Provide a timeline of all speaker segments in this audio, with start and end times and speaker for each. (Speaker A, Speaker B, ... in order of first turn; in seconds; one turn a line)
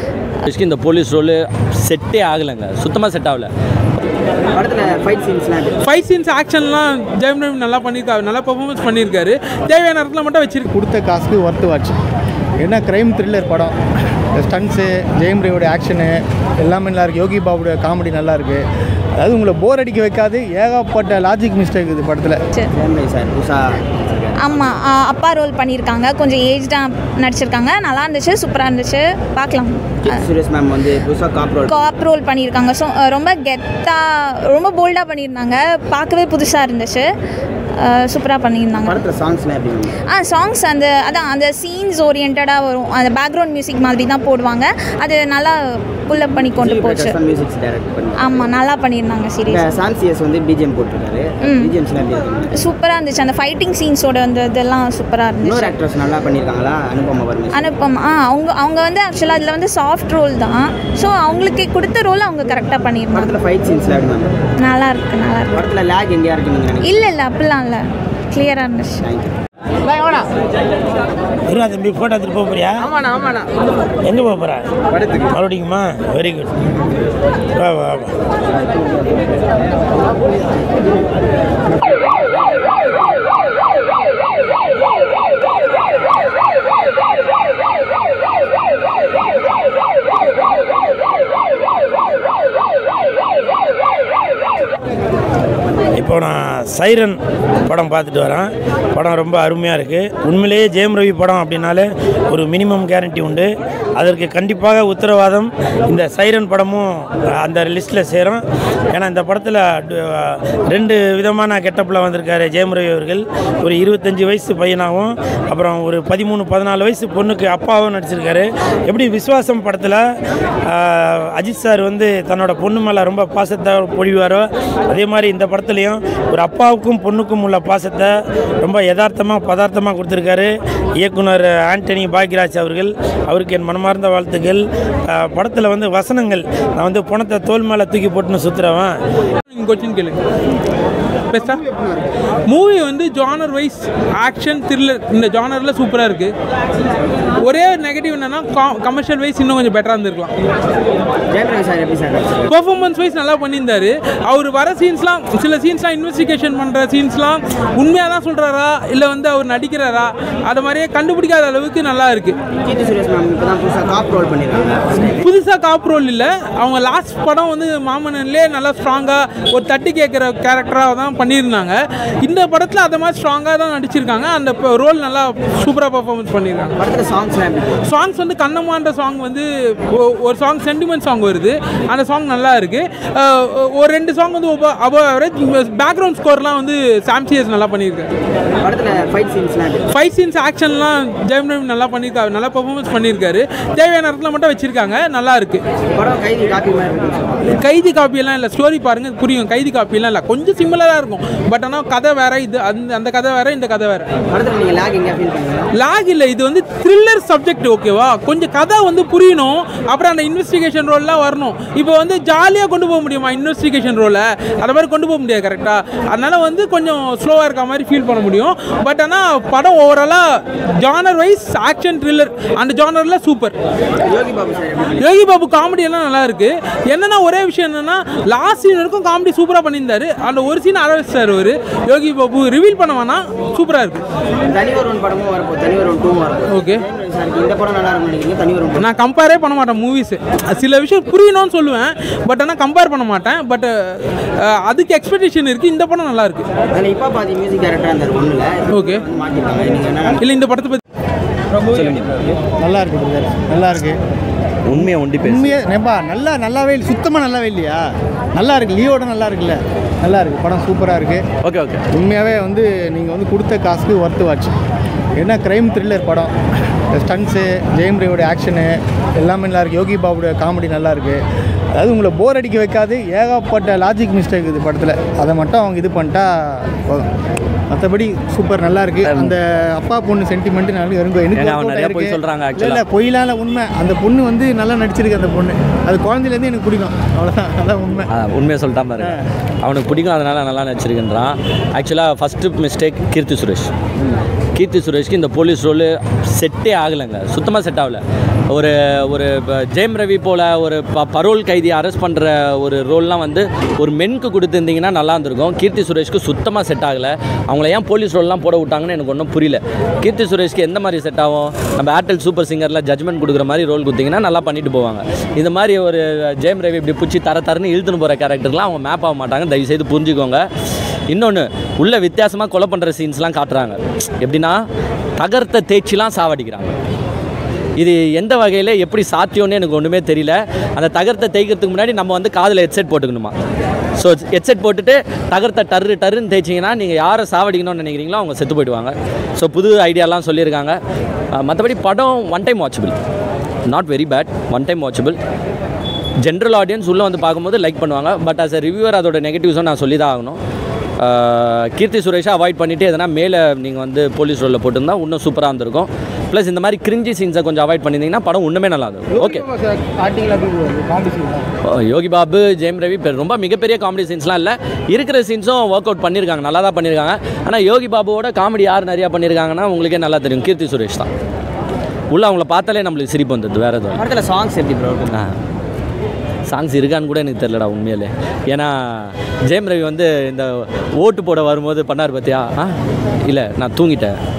Speaker A: 0.4-3.5
Speaker B: 4.5-5.8
Speaker C: 5.8-10.7
Speaker D: 10.7-12.0
Speaker D: 12.6-13.7
Speaker D: 14.4-18.6
Speaker D: 19.2-22.4
Speaker B: 22.7-24.8
Speaker E: 24.4-30.2
Speaker B: 30.0-31.9
Speaker E: 31.7-37.0
Speaker E: 37.8-39.0
Speaker B: 38.8-40.0
Speaker E: 40.1-47.2
Speaker B: 46.1-48.5
Speaker E: 48.2-49.8
Speaker B: 49.5-52.5
Speaker E: 51.4-51.8
Speaker E: 52.5-55.7
Speaker B: 55.4-57.7
Speaker E: 57.5-63.4
Speaker B: 63.1-64.4
Speaker E: 64.6-65.7
Speaker B: 65.5-67.1
Speaker E: 66.8-69.0
Speaker B: 69.0-69.4
Speaker F: 71.5-72.9
Speaker B: 73.0-73.4
Speaker F: 74.0-74.7
Speaker F: 75.3-76.5
Speaker F: 77.5-78.1
Speaker B: 78.5-79.3
Speaker F: 96.0-120.0
Speaker F: 120.7-139.0
Speaker C: 139.5-140.2
Speaker C: 141.3-141.6
Speaker B: 141.4-142.1
Speaker C: 142.5-146.3
Speaker C: 147.4-150.3
Speaker B: 151.3-152.4
Speaker C: 152.5-162.4
Speaker B: 162.6-165.2
Speaker C: 165.2-176.8
Speaker B: 176.8-177.8
Speaker C: 177.8-188.1
Speaker B: 188.6-189.9
Speaker C: 189.9-195.6
Speaker B: 195.9-197.4
Speaker C: 197.5-204.1
Speaker B: 204.3-205.7
Speaker C: 205.7-223.6
Speaker B: 224.0-225.0
Speaker C: 225.0-234.0
Speaker B: 234.4-238.9
Speaker C: 236.5-236.8
Speaker C: 238.8-246.4
Speaker B: 246.7-250.2
Speaker C: 248.7-249.0
Speaker C: 250.2-250.8
Speaker A: 251.7-252.1
Speaker D: 252.6-254.0
Speaker A: 254.7-255.6
Speaker D: 254.7-261.2
Speaker A: 261.4-261.8
Speaker D: 261.9-264.5
Speaker D: 265.2-266.3
Speaker D: 266.9-271.2
Speaker D: 271.7-277.1
Speaker D: 277.7-288.1
Speaker A: 279.0-279.4
Speaker A: 281.3-282.8
Speaker A: 288.1-293.7
Speaker A: 294.5-320.4
Speaker A: 321.1-324.6
Speaker A: 325.2-326.7
Speaker A: 327.8-333.3
Speaker A: 334.0-340.8
Speaker A: 341.3-342.9
Speaker A: 343.7-345.2
Speaker A: 346.2-350.4
Speaker A: 351.0-359.4
Speaker D: 359.1-361.4
Speaker A: 361.6-371.1
Speaker A: 372.1-374.0
Speaker B: 373.9-375.3
Speaker A: 376.5-382.7
Speaker A: 383.3-384.2